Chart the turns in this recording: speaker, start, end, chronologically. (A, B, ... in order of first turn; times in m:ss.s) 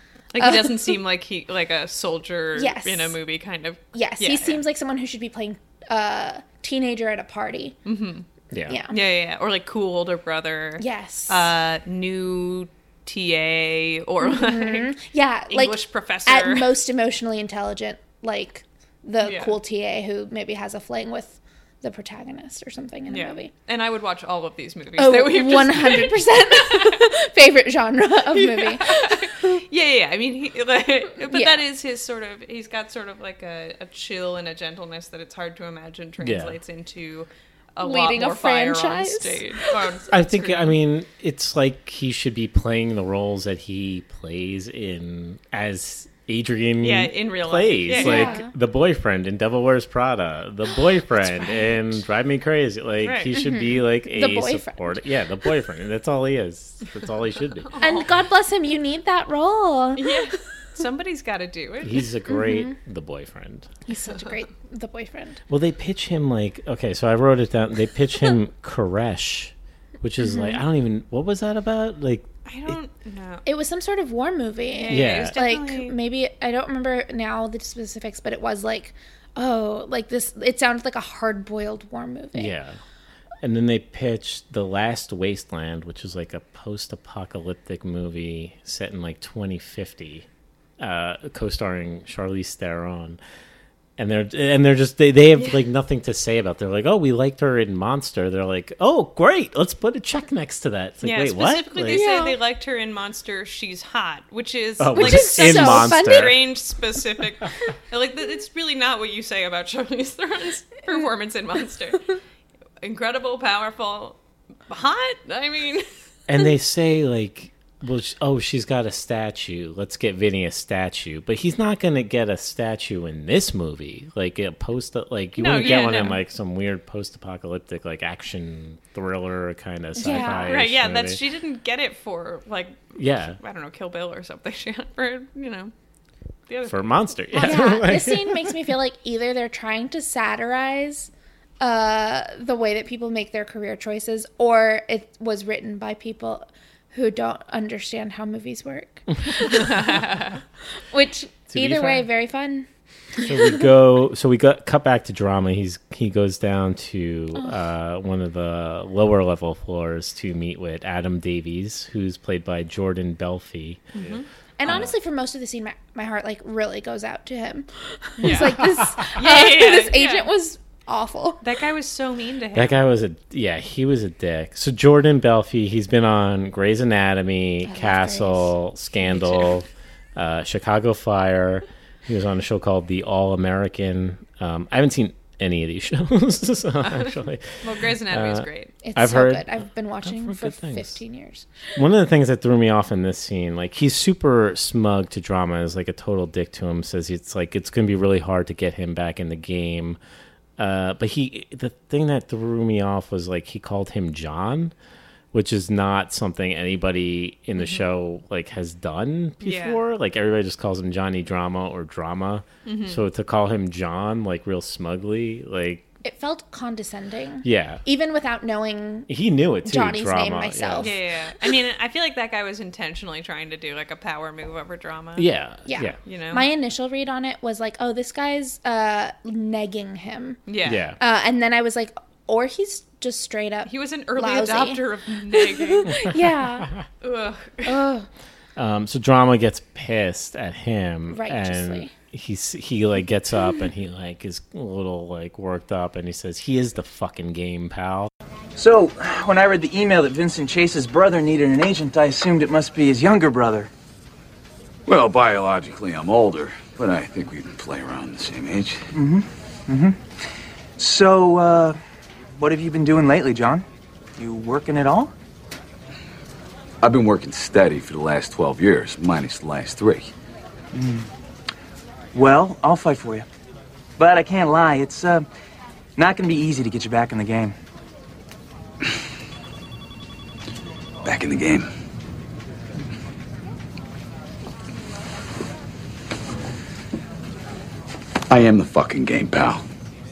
0:00.3-0:04.6 A
0:00.4-0:01.0 B
0:02.6-0:03.2 B
0:03.9-0:07.8 B
0:07.9-0:08.3 A
0:08.7-0:09.0 B
0:08.9-0:14.9 A
0:10.8-0:11.5 B
0:14.2-0:23.5 B
0:15.5-0:16.8 A
0:19.2-0:19.6 A
0:23.1-0:27.1 A
0:25.0-0:29.6 B
0:28.3-0:40.7 A
0:31.3-0:31.6 B
0:36.2-0:36.6 C
0:37.8-0:39.7 B
0:40.1-0:57.7 C
0:46.8-0:48.4 A
0:47.9-0:48.5 B
0:51.4-0:51.8 B
0:53.0-0:53.4 A
0:53.3-0:55.0 B
0:57.6-0:58.1 A
0:57.8-1:00.3 B
1:00.0-1:02.0 A
1:01.8-1:03.7 C
1:02.3-1:02.7 B
1:03.9-1:05.4 B
1:05.5-1:12.8 C
1:10.2-1:10.6 B
1:12.4-1:13.4 A
1:13.4-1:22.5 B
1:14.7-1:15.9 A
1:14.9-1:15.4 C
1:22.3-1:22.8 C
1:23.4-1:30.3 C
1:30.8-1:33.2 C
1:34.0-1:42.0 C
1:41.0-1:52.1 A
1:41.9-1:42.4 B
1:44.8-1:46.4 C
1:44.9-1:46.5 B
1:52.8-1:55.9 A
1:56.3-2:11.2 C
2:05.4-2:06.2 A
2:10.0-2:10.6 B
2:10.0-2:15.7 A
2:13.0-2:13.4 C
2:16.5-2:17.6 A
2:16.6-2:18.6 C
2:17.4-2:30.0 B
2:29.4-2:30.4 A
2:30.9-2:32.7 B
2:31.5-2:32.1 C
2:33.2-2:33.6 B
2:33.2-2:44.9 C
2:43.9-2:44.3 A
2:44.6-2:51.4 B
2:48.2-2:50.3 A
2:48.3-2:48.8 C
2:51.4-2:52.8 A
2:52.5-3:09.5 C
2:57.6-2:58.5 B
2:59.0-2:59.5 A
3:07.6-3:08.7 A
3:08.8-3:11.6 B
3:10.0-3:11.0 C
3:11.8-3:20.0 C
3:20.6-3:24.7 C
3:25.3-3:35.9 C
3:27.6-3:27.8 A
3:29.4-3:29.8 A
3:32.6-3:33.0 A
3:36.0-3:39.1 B
3:37.4-3:37.8 C
3:39.1-3:40.9 C
3:39.6-3:41.5 B
3:40.8-3:45.3 A
3:45.2-3:46.0 C
3:45.7-3:50.5 B
3:46.0-3:46.4 A
3:50.5-3:50.8 A
3:50.6-3:51.0 C
3:51.0-3:56.7 B
3:53.6-3:55.9 A
3:57.0-3:57.8 A
3:57.6-3:58.1 B
3:58.6-4:08.1 C
4:01.1-4:01.9 B
4:08.6-4:13.7 D
4:14.9-4:18.9 E
4:18.9-4:20.0 D
4:20.8-4:21.8 D
4:22.4-4:23.6 D
4:24.2-4:25.1 D
4:26.8-4:30.1 E
4:30.7-4:31.1 D
4:32.1-4:33.2 D
4:34.0-4:35.3 D
4:36.0-4:37.5 D
4:41.0-4:41.7 E
4:48.3-4:49.6 E